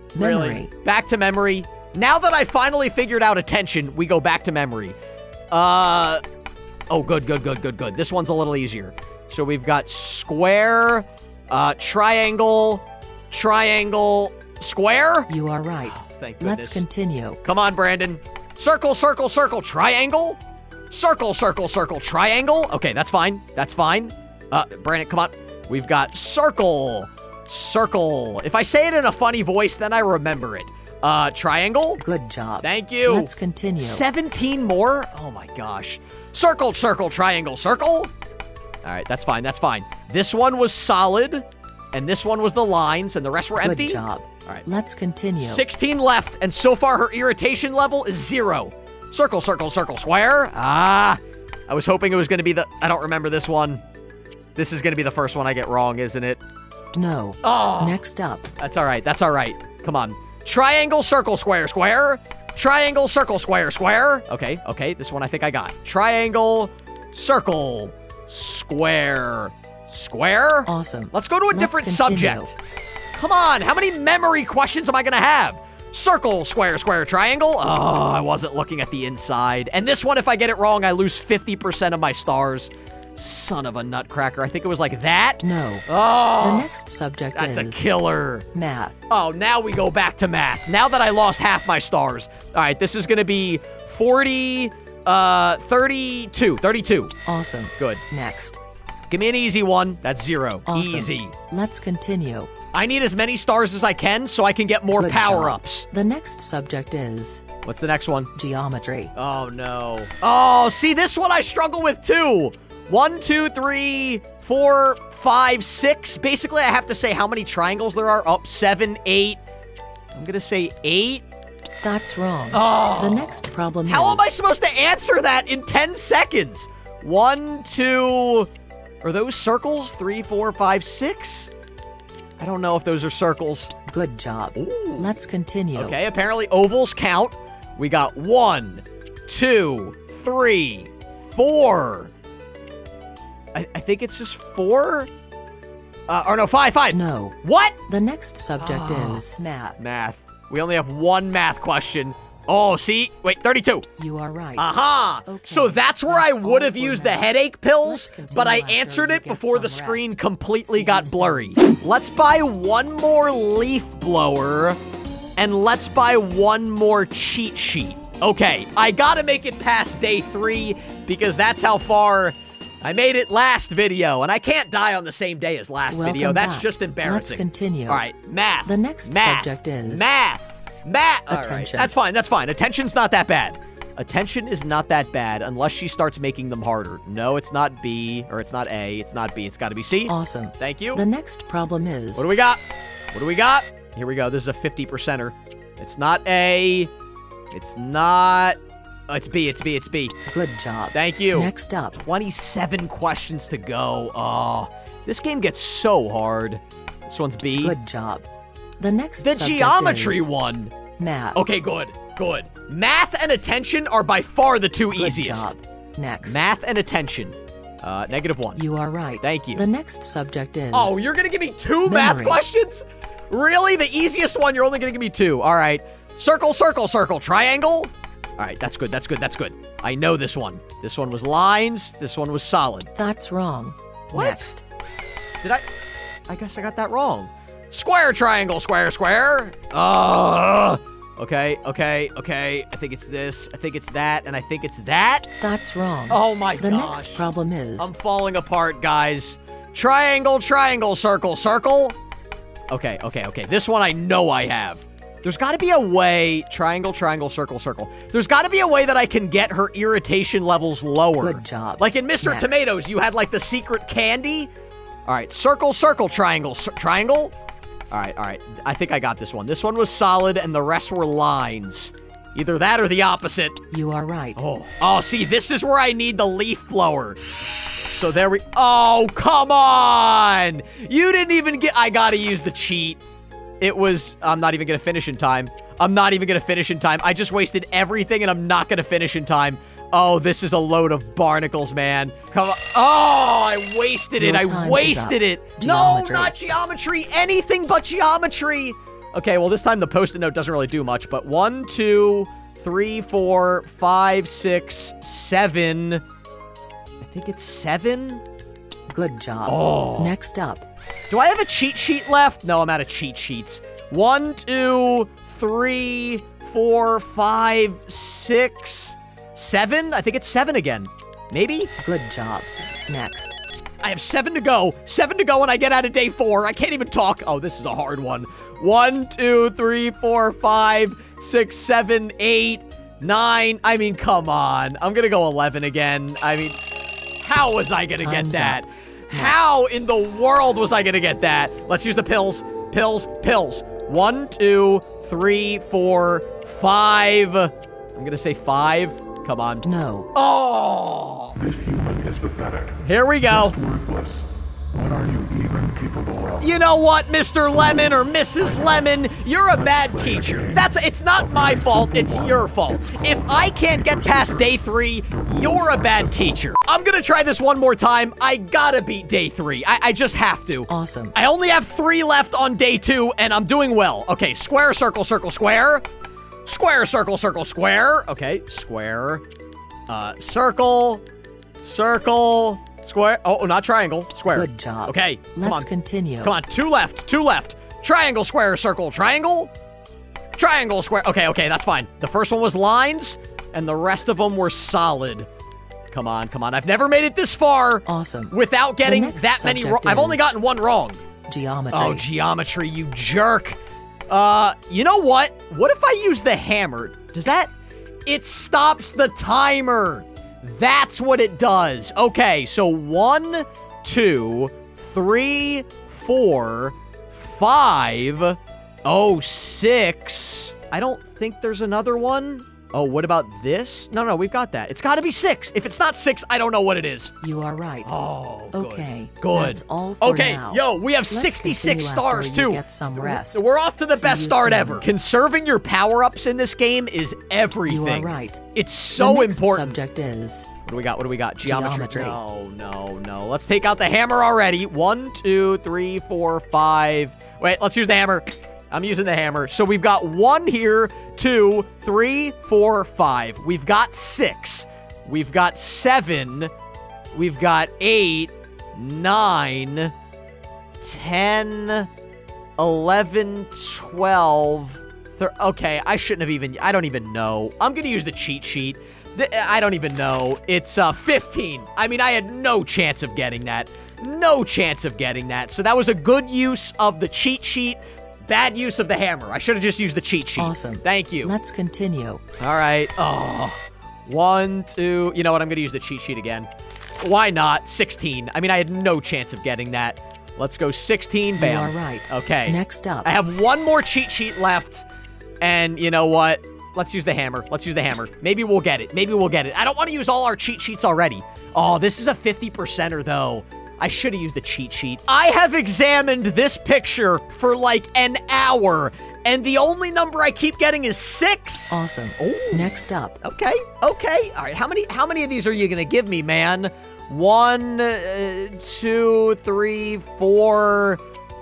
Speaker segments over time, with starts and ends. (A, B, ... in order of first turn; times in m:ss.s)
0:00.1-0:00.7 A
0:00.2-0:05.0 B
0:05.5-0:06.2 B
0:06.9-0:15.3 B
0:15.3-0:17.4 A
0:15.9-0:16.8 B
0:17.4-0:20.4 B
0:20.9-0:32.0 B
0:32.0-0:34.0 A
0:32.6-0:38.1 B
0:38.8-0:44.7 B
0:43.6-0:45.6 A
0:45.4-0:53.8 B
0:54.6-0:56.4 B
0:57.0-0:58.5 A
0:57.4-0:58.0 B
0:58.6-1:12.6 B
1:10.7-1:12.5 A
1:13.1-1:26.7 B
1:25.4-1:25.8 A
1:26.4-1:27.9 A
1:27.4-1:28.5 B
1:28.5-1:29.0 A
1:29.1-1:37.1 B
1:37.3-1:38.6 A
1:37.8-1:38.0 B
1:39.1-1:41.3 B
1:40.7-1:42.5 A
1:42.7-1:45.9 B
1:44.9-1:47.4 A
1:47.6-1:48.3 B
1:48.4-1:49.1 A
1:49.2-1:59.4 B
2:00.2-2:01.2 B
2:01.8-2:04.3 A
2:02.5-2:08.5 B
2:09.0-2:11.5 B
2:12.4-2:13.7 B
2:13.9-2:16.0 A
2:14.6-2:15.1 B
2:15.8-2:22.1 B
2:23.5-2:25.1 B
2:26.1-2:27.8 B
2:26.9-2:27.4 A
2:27.9-2:29.8 A
2:28.6-2:29.2 B
2:29.8-2:33.9 B
2:34.0-2:34.7 A
2:34.6-2:44.8 B
2:35.3-2:37.3 A
2:37.8-2:41.5 A
2:45.4-3:11.0 B
2:55.9-2:58.0 A
2:58.7-3:00.1 A
3:01.3-3:01.9 A
3:10.1-3:12.3 A
3:12.2-3:12.6 B
3:13.1-3:16.9 B
3:17.5-3:18.6 B
3:19.1-3:20.2 B
3:20.3-3:22.0 A
3:20.9-3:27.8 B
3:27.6-3:28.2 A
3:28.8-3:30.3 A
3:29.2-3:30.8 B
3:31.0-3:31.4 A
3:31.3-3:35.6 B
3:34.9-3:36.4 A
3:36.2-3:38.6 B
3:38.6-3:41.0 A
3:39.2-3:39.6 B
3:40.7-3:52.9 B
3:41.8-3:42.4 A
3:53.0-3:54.6 A
3:54.1-3:54.5 B
3:56.3-4:05.3 B
4:05.4-4:07.9 A
4:06.1-4:07.2 B
4:07.8-4:12.0 B
4:12.7-4:24.5 B
4:21.2-4:22.6 A
4:25.1-4:27.3 B
4:27.9-4:33.6 B
4:33.7-4:34.4 A
4:34.4-4:37.2 B
4:37.9-4:43.0 B
4:43.6-5:06.0 B
4:54.2-4:56.3 A
5:07.0-5:08.2 B
5:08.9-5:10.7 A
5:09.5-5:10.1 B
5:11.1-5:21.7 B
5:21.8-5:23.4 A
5:23.8-5:36.6 B
5:37.2-5:51.4 B
5:38.0-5:38.6 A
5:39.1-5:39.5 A
5:49.6-5:50.1 A
5:51.4-5:52.8 C
5:52.8-5:53.6 B
5:53.3-5:54.2 C
5:54.8-5:56.4 C
5:56.4-6:15.8 B
5:59.8-6:00.4 C
6:01.4-6:01.8 C
6:10.7-6:11.1 A
6:16.4-6:19.2 B
6:19.9-6:21.0 B
6:21.6-6:25.7 B
6:24.3-6:26.3 A
6:26.2-6:29.5 B
6:30.4-6:35.3 B
6:35.9-6:41.0 B
6:37.9-6:40.3 A
6:41.3-6:42.0 A
6:41.7-6:47.5 B
6:48.1-7:07.2 B
7:07.2-7:07.9 A
7:07.8-7:19.8 B
7:08.5-7:13.4 A
7:13.9-7:14.9 A
7:17.7-7:18.4 A
7:19.0-7:20.5 A
7:20.6-7:36.5 B
7:21.4-7:22.2 A
7:37.1-7:39.9 B
7:40.8-7:41.9 B
7:42.6-8:01.3 B
8:00.4-8:02.2 A
8:02.4-8:06.5 B
8:07.0-8:14.9 B
8:11.4-8:13.1 A
8:15.4-8:41.0 B
8:31.7-8:33.2 A